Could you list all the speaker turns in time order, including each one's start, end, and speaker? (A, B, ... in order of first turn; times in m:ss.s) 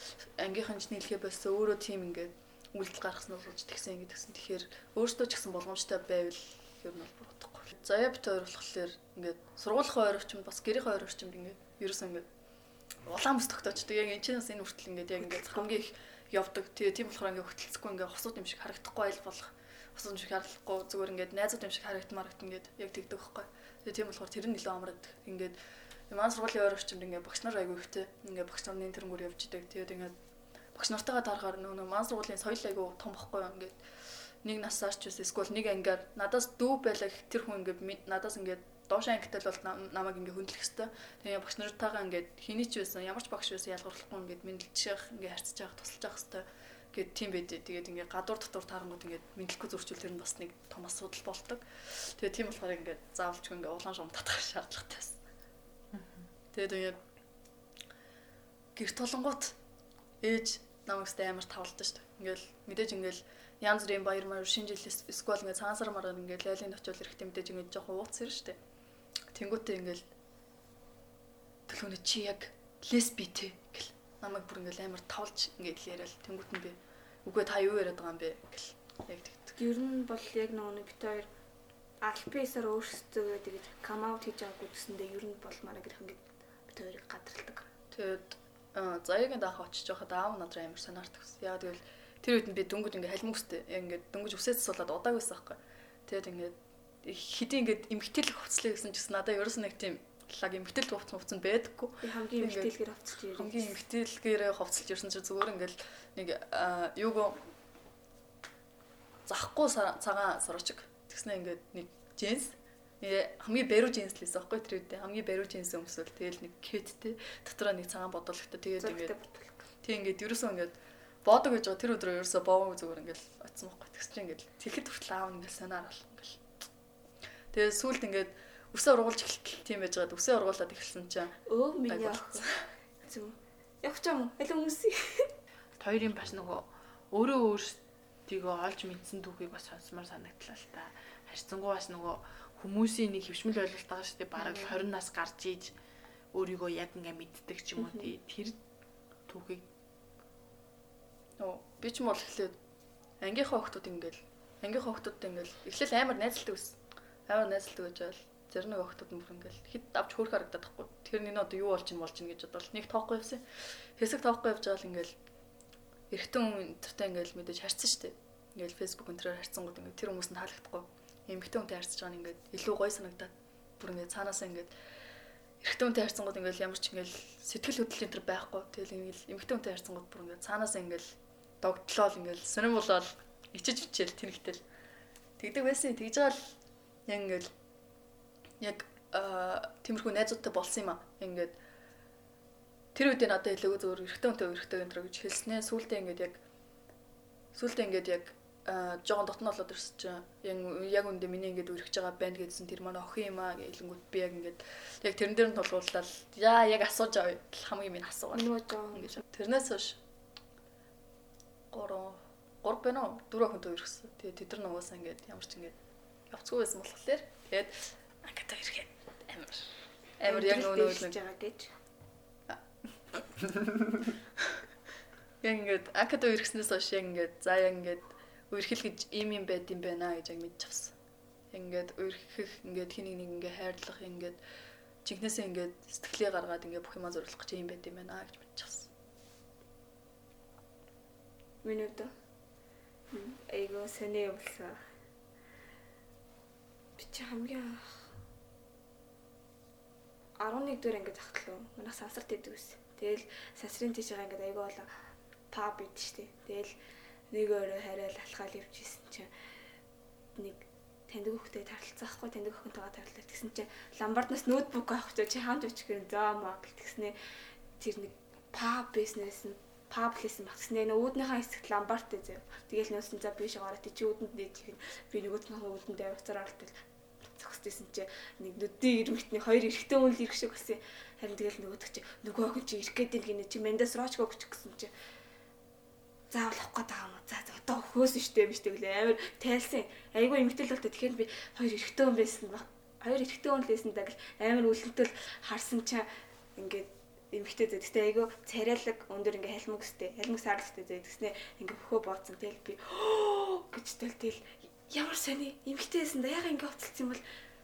0:00.2-0:12.2 A
0:13.1-0:25.6 A
0:15.4-0:15.6 B
0:26.1-0:30.1 A
0:30.8-0:33.8 A
0:34.4-0:55.2 A
0:55.9-0:56.3 C
0:56.5-0:57.0 A
0:58.8-0:59.6 A
1:00.2-1:08.6 A
1:09.3-1:10.1 A
1:11.7-1:19.6 A
1:19.6-1:21.3 B
1:22.0-1:27.7 B
1:27.9-1:42.7 A
1:42.0-1:43.7 B
1:43.4-1:47.4 A
1:49.3-1:59.1 A
1:58.8-1:59.6 B
1:59.8-2:06.4 A
2:07.5-2:11.4 A
2:11.5-2:12.5 B
2:11.9-2:12.7 A
2:13.1-2:15.3 B
2:15.8-2:25.7 C
2:26.3-2:28.6 C
2:27.8-2:28.1 B
2:29.3-2:29.7 C
2:31.4-2:32.6 A
2:33.2-2:43.4 A
2:44.0-2:45.2 A
2:46.1-2:54.7 A
2:55.6-3:04.6 A
3:05.4-3:06.5 A
3:07.1-3:07.5 A
3:08.6-3:11.6 A
3:13.0-3:16.4 A
3:17.5-3:30.0 A
3:28.3-3:29.2 B
3:31.7-3:35.8 A
3:36.3-3:39.7 A
3:40.2-3:41.2 A
3:40.3-3:41.7 B
3:45.4-3:50.9 A
3:51.5-3:54.4 A
3:55.0-3:58.9 A
4:01.6-4:02.1 B
4:03.1-4:04.8 B
4:07.0-4:07.9 B
4:10.4-4:14.9 B
4:15.5-4:16.7 B
4:17.3-4:19.3 B
4:20.4-4:27.2 B
4:27.8-4:36.8 B
4:37.4-4:44.9 B
4:46.3-5:07.2 B